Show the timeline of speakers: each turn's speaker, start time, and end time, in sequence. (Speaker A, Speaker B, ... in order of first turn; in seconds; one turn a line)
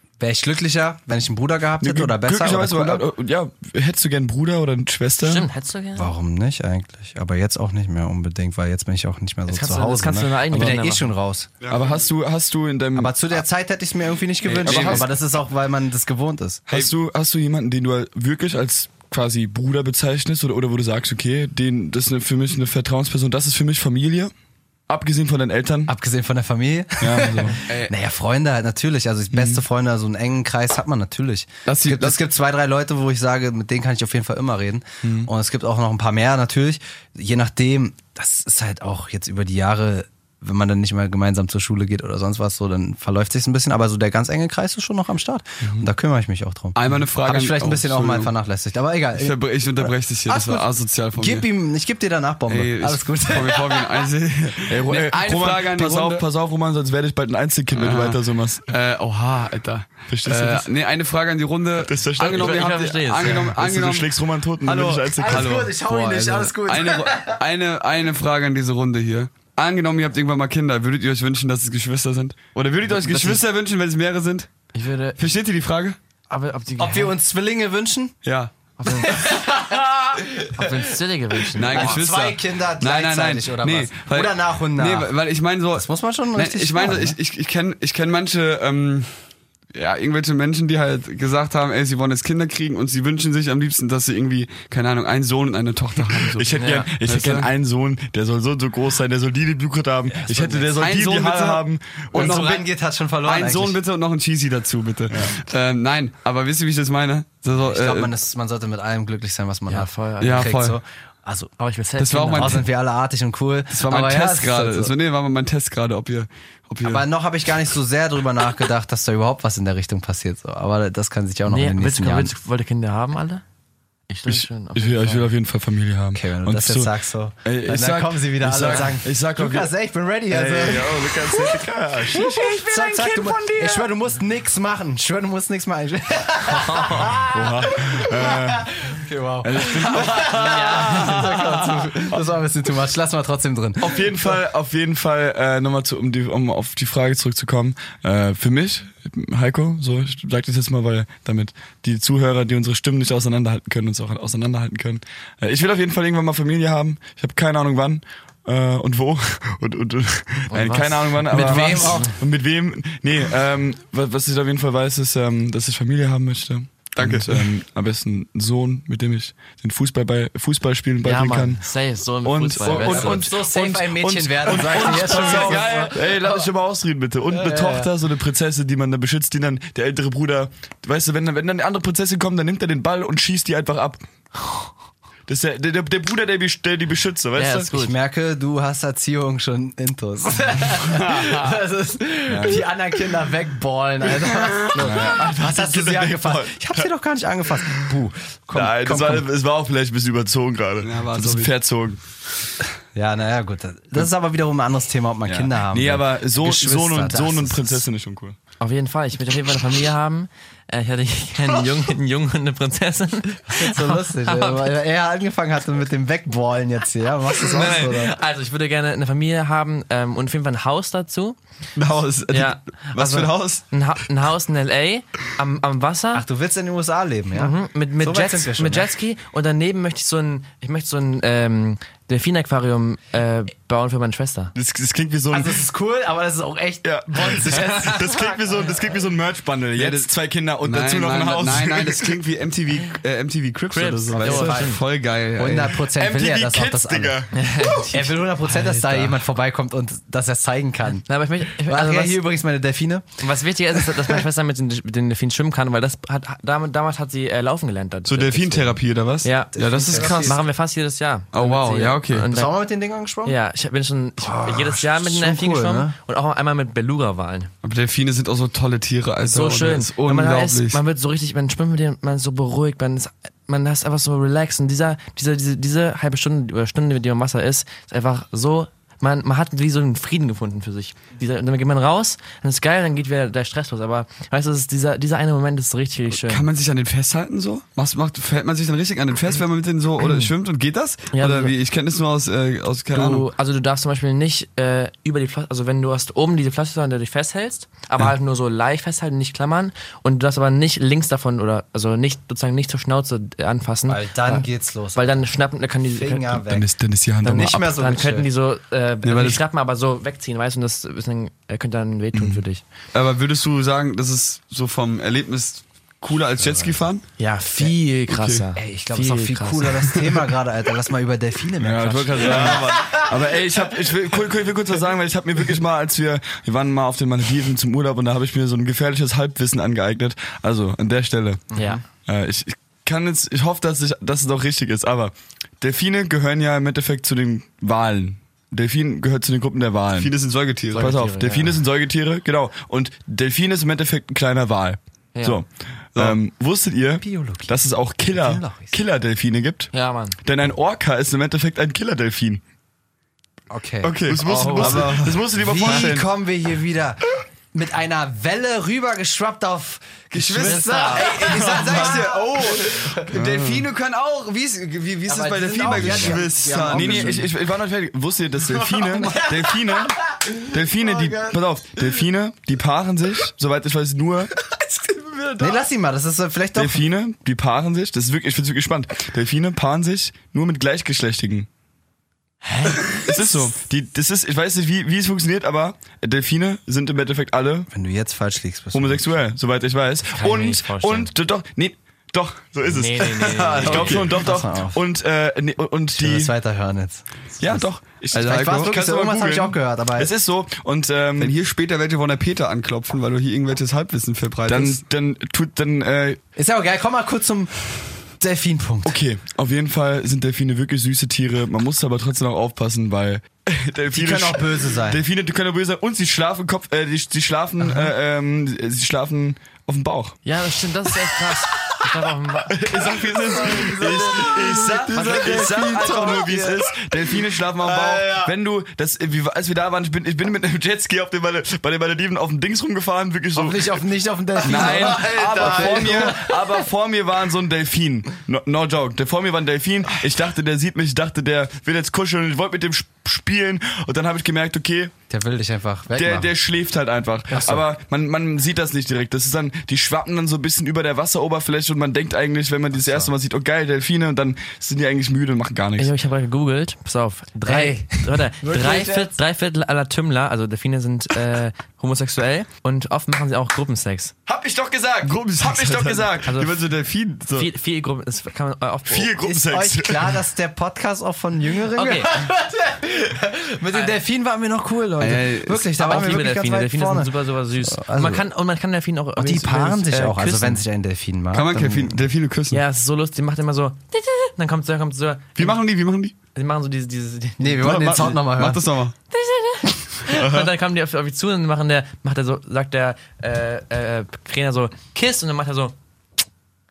Speaker A: 0.2-3.1
Speaker B: 1.8-5.5
Speaker C: 5.2-6.1
Speaker A: 6.0-11.5
Speaker C: 9.5-11.1
Speaker B: 10.5-10.8
Speaker D: 11.6-12.1
Speaker B: 11.7-13.1
Speaker A: 12.9-16.6
Speaker D: 14.4-15.1
Speaker B: 14.7-15.1
Speaker B: 16.7-24.3
Speaker B: 24.9-25.9
Speaker A: 25.9-54.1
Speaker B: 27.0-27.6
Speaker D: 27.7-27.9
Speaker B: 29.3-29.6
Speaker D: 31.7-32.2
Speaker B: 35.0-35.3
Speaker B: 45.6-45.9
Speaker D: 46.8-48.3
Speaker D: 49.2-51.5
Speaker D: 52.5-56.2
Speaker B: 54.7-58.6
Speaker D: 57.7-74.5
Speaker B: 60.1-60.7
Speaker B: 61.8-65.7
Speaker C: 62.2-63.5
Speaker A: 65.2-67.4
Speaker B: 72.9-73.4
Speaker C: 74.7-75.2
Speaker D: 75.2-76.0
Speaker C: 76.3-77.1
Speaker A: 76.8-78.1
Speaker D: 78.2-79.1
Speaker C: 78.8-79.5
Speaker A: 78.9-85.1
Speaker C: 80.4-82.0
Speaker D: 81.5-89.2
Speaker A: 85.7-87.2
Speaker D: 89.7-97.5
Speaker B: 96.3-102.3
Speaker C: 96.6-96.9
Speaker A: 100.1-100.8
Speaker D: 100.8-102.7
Speaker A: 102.1-103.8
Speaker D: 103.2-108.1
Speaker B: 105.1-105.4
Speaker A: 107.6-111.5
Speaker C: 109.7-110.5
Speaker D: 110.2-110.8
Speaker C: 111.6-112.7
Speaker D: 112.0-112.7
Speaker A: 112.3-114.9
Speaker D: 113.7-117.1
Speaker A: 116.8-122.3
Speaker C: 121.5-123.4
Speaker C: 124.1-125.3
Speaker B: 124.3-126.9
Speaker A: 126.1-144.3
Speaker B: 127.5-129.7
Speaker B: 130.3-133.8
Speaker C: 136.4-137.2
Speaker B: 137.1-142.2
Speaker C: 140.0-141.4
Speaker B: 143.8-171.6
Speaker C: 160.5-162.1
Speaker A: 161.3-162.2
Speaker D: 167.0-167.5
Speaker C: 171.0-173.3
Speaker B: 172.2-184.0
Speaker A: 172.6-176.0
Speaker C: 174.6-176.4
Speaker A: 177.3-177.9
Speaker B: 185.3-187.7
Speaker C: 187.4-188.0
Speaker A: 187.7-199.3
Speaker B: 192.3-192.7
Speaker B: 194.6-196.9
Speaker B: 198.5-202.0
Speaker D: 200.8-201.5
Speaker A: 202.9-207.9
Speaker B: 205.3-208.4
Speaker C: 208.6-214.8
Speaker A: 213.5-218.2
Speaker C: 217.4-221.4
Speaker D: 221.8-223.6
Speaker C: 222.3-226.2
Speaker A: 226.1-228.9
Speaker C: 227.3-234.5
Speaker B: 234.6-235.6
Speaker A: 235.3-238.7
Speaker B: 236.8-242.2
Speaker C: 237.5-238.0
Speaker D: 239.8-240.1
Speaker D: 240.6-245.8
Speaker C: 243.7-244.8
Speaker A: 244.2-244.8
Speaker A: 245.3-247.3
Speaker B: 245.8-247.4
Speaker C: 247.3-249.1
Speaker A: 247.8-253.2
Speaker C: 251.1-252.2
Speaker C: 253.2-262.5
Speaker D: 258.1-260.4
Speaker A: 259.5-260.4
Speaker D: 261.3-262.3
Speaker A: 262.3-263.4
Speaker C: 263.2-267.5
Speaker A: 264.2-266.0
Speaker D: 267.6-270.8
Speaker C: 269.3-286.4
Speaker D: 286.1-293.3
Speaker C: 290.0-290.3
Speaker C: 291.1-291.5
Speaker C: 292.9-306.4
Speaker A: 303.9-305.3
Speaker A: 305.8-308.3
Speaker B: 306.5-307.7
Speaker C: 307.4-312.6
Speaker D: 309.0-309.4
Speaker B: 312.1-312.4
Speaker D: 312.9-317.0
Speaker A: 316.4-316.9
Speaker C: 317.2-319.9
Speaker D: 318.1-318.4
Speaker A: 318.6-323.3
Speaker B: 321.6-331.5
Speaker A: 331.5-331.8
Speaker C: 331.6-331.8
Speaker B: 332.1-340.1
Speaker D: 340.0-340.9
Speaker C: 340.7-341.6
Speaker B: 340.7-349.7
Speaker C: 345.1-345.4
Speaker A: 347.0-348.8
Speaker C: 349.7-350.2
Speaker B: 350.2-352.4
Speaker A: 353.5-363.1
Speaker D: 353.8-355.9
Speaker B: 354.1-356.1
Speaker D: 360.1-367.3
Speaker C: 360.4-361.4
Speaker B: 363.1-363.7
Speaker A: 365.1-367.3
Speaker B: 365.7-374.3
Speaker A: 368.9-371.4
Speaker D: 374.7-375.6
Speaker A: 375.4-376.9
Speaker B: 376.6-381.5
Speaker C: 382.4-383.0
Speaker B: 383.0-387.7
Speaker A: 387.7-389.2
Speaker B: 388.7-396.3
Speaker C: 390.1-391.1
Speaker C: 392.7-394.1
Speaker D: 393.2-394.1
Speaker A: 393.8-394.8
Speaker A: 395.9-400.1
Speaker B: 397.4-401.4
Speaker D: 398.1-398.7
Speaker D: 401.2-404.8
Speaker B: 404.5-406.2
Speaker A: 406.4-409.0
Speaker B: 408.8-420.2
Speaker A: 413.9-415.0
Speaker C: 420.2-423.0
Speaker B: 422.5-433.8
Speaker A: 423.3-426.9
Speaker C: 424.9-425.8
Speaker D: 425.0-425.9
Speaker A: 427.6-428.3
Speaker A: 433.3-436.6
Speaker B: 434.4-444.9
Speaker C: 434.5-435.8
Speaker A: 445.1-446.3
Speaker B: 445.9-455.9
Speaker C: 447.3-447.6
Speaker A: 447.3-447.6
Speaker A: 452.7-453.1
Speaker C: 455.8-464.1
Speaker A: 457.4-459.1
Speaker B: 464.3-466.4
Speaker D: 465.0-467.5
Speaker C: 466.3-466.6
Speaker C: 467.3-469.2
Speaker B: 468.9-470.1
Speaker A: 469.2-478.3
Speaker C: 471.7-472.2
Speaker D: 475.0-475.7
Speaker C: 475.8-480.6
Speaker A: 479.2-482.0
Speaker D: 481.3-482.6
Speaker C: 482.5-485.6
Speaker D: 485.4-486.1
Speaker C: 486.4-487.8
Speaker A: 487.4-488.7
Speaker D: 487.6-488.9
Speaker C: 489.1-495.8
Speaker D: 490.1-490.4